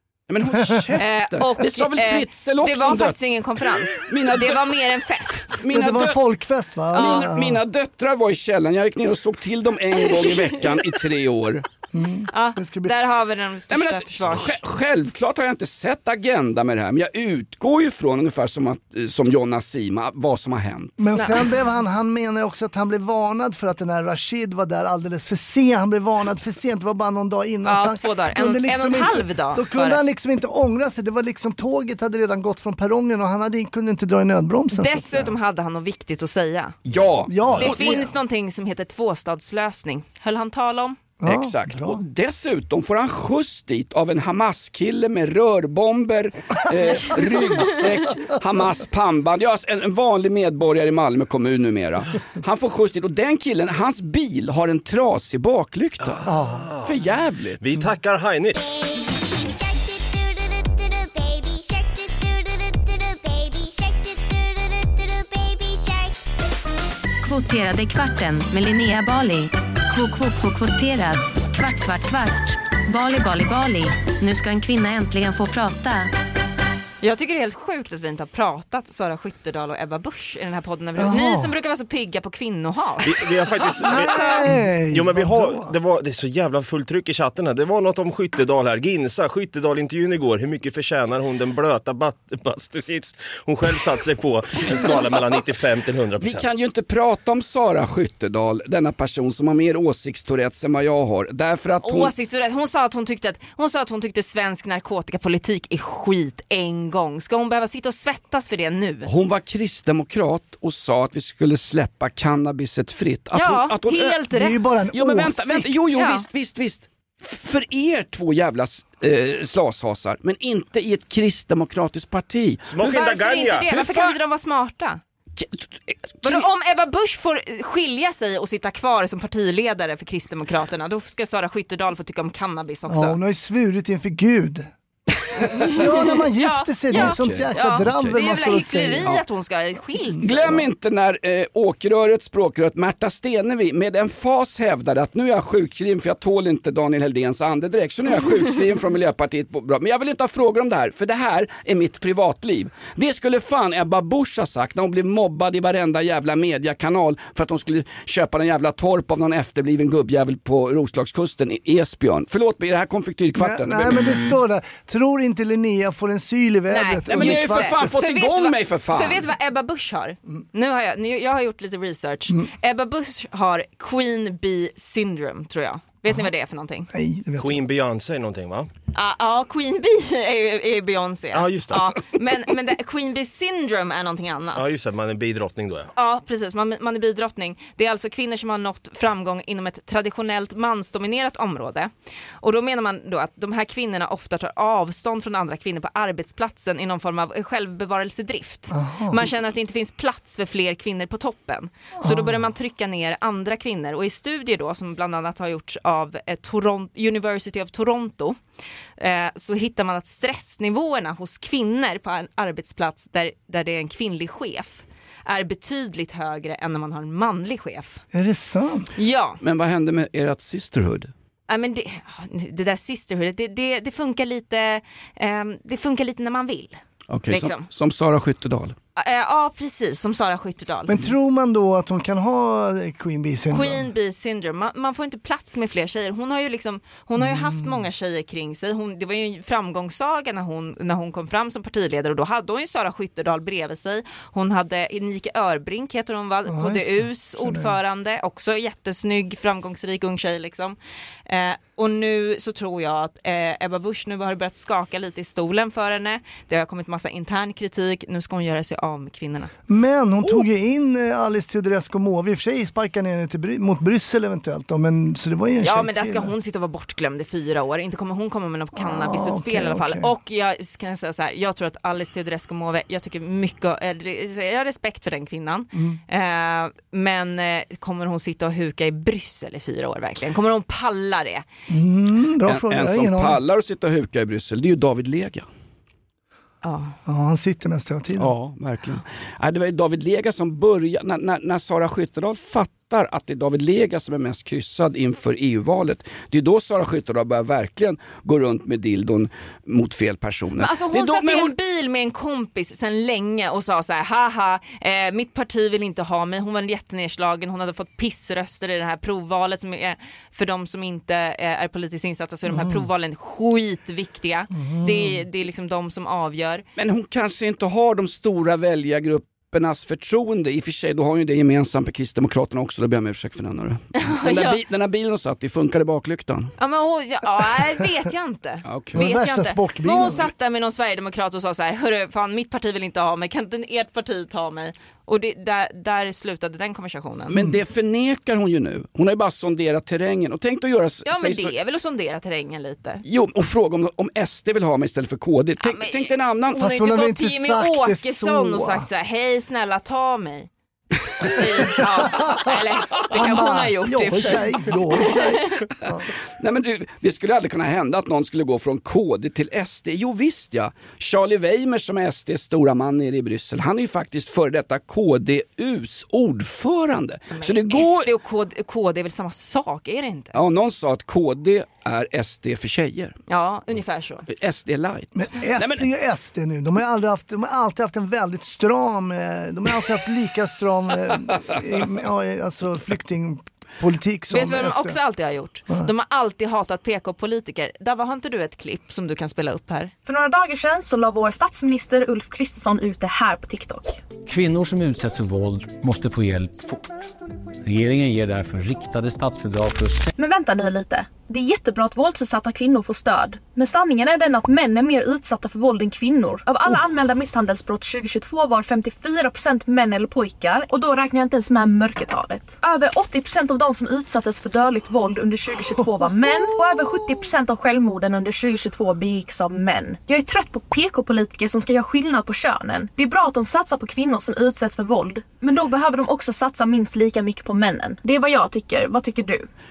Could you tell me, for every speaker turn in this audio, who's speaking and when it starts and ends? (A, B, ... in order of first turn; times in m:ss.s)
0:00.3-0:04.7 A
0:00.6-0:00.9 B
0:01.0-0:05.6 C
0:05.5-0:06.2 A
0:05.7-0:07.6 B
0:06.9-0:11.7 A
0:06.9-0:07.3 C
0:10.2-0:10.5 C
0:11.9-0:13.0 B
0:12.3-0:14.6 C
0:13.7-0:21.1 A
0:21.0-0:35.3 B
0:21.1-0:21.4 C
0:27.6-0:30.0 C
0:34.7-0:36.8 C
0:36.9-0:37.8 A
0:37.3-0:38.1 B
0:37.6-0:41.0 C
0:41.2-0:42.0 B
0:41.3-0:56.2 A
0:56.0-0:56.9 D
0:56.3-0:56.7 B
0:56.8-0:57.6 A
0:57.6-0:58.7 D
1:07.2-1:16.1 E
1:17.0-1:23.1 C
1:21.0-1:21.5 B
1:23.0-1:36.5 D
1:23.8-1:24.4 C
1:23.9-1:25.7 B
1:34.7-1:35.2 A
1:36.2-1:42.1 A
1:41.8-1:49.1 C
1:49.0-1:54.2 A
1:53.3-1:54.6 C
1:54.3-1:55.7 B
1:54.9-2:02.7 A
1:55.9-1:56.3 C
2:02.7-2:03.7 D
2:02.8-2:05.0 C
2:03.7-2:04.2 A
2:05.4-2:06.5 A
2:06.2-2:13.2 C
2:12.9-2:14.7 B
2:15.3-2:20.3 C
2:15.7-2:19.1 B
2:16.9-2:18.2 A
2:20.2-2:20.6 B
2:20.2-2:44.2 A
2:43.4-2:47.7 B
2:46.7-2:56.9 C
2:47.1-2:49.3 A
2:56.9-2:57.6 B
2:57.4-2:58.7 D
2:58.9-3:04.7 C
3:01.3-3:02.0 D
3:04.6-3:05.9 D
3:06.0-3:11.9 C
3:12.4-3:28.4 C
3:18.7-3:19.2 B
3:22.0-3:22.4 B
3:29.0-3:38.0 C
3:38.1-3:38.9 B
3:39.0-3:39.4 C
3:39.4-3:41.1 A
3:41.5-3:47.6 C
3:47.1-3:48.8 A
3:49.0-3:51.0 C
3:50.9-3:53.9 B
3:53.5-4:19.5 C
3:57.2-3:57.8 B
4:06.4-4:07.8 B
4:19.7-4:26.3 B
4:25.6-4:41.5 C
4:28.8-4:30.1 B
4:35.7-4:36.0 B
4:41.7-4:43.4 B
4:42.5-4:45.5 A
4:46.6-4:47.0 C
4:47.1-4:48.3 B
4:48.2-5:01.6 A
5:00.6-5:16.7 C
5:12.5-5:12.9 B
5:14.5-5:15.2 B
5:16.8-5:26.5 A
5:24.0-5:24.6 C
5:26.6-5:37.3 C
5:28.7-5:29.0 A
5:28.9-5:30.3 B
5:37.3-5:41.5 A
5:37.3-5:37.6 B
5:41.1-5:43.0 C
5:43.0-5:46.7 A
5:45.6-5:50.5 C
5:46.5-5:48.8 B
5:51.2-5:55.6 C
5:51.8-5:52.5 B
5:53.1-5:56.1 B
5:56.4-6:08.1 A
6:07.4-6:10.3 C
6:10.3-6:13.2 A
6:13.3-6:14.2 C
6:14.3-6:15.9 A
6:15.2-6:25.0 B
6:24.3-6:29.9 C
6:30.1-6:34.0 F
6:34.2-6:36.9 G
6:37.6-6:40.1 G
6:40.2-7:09.5 F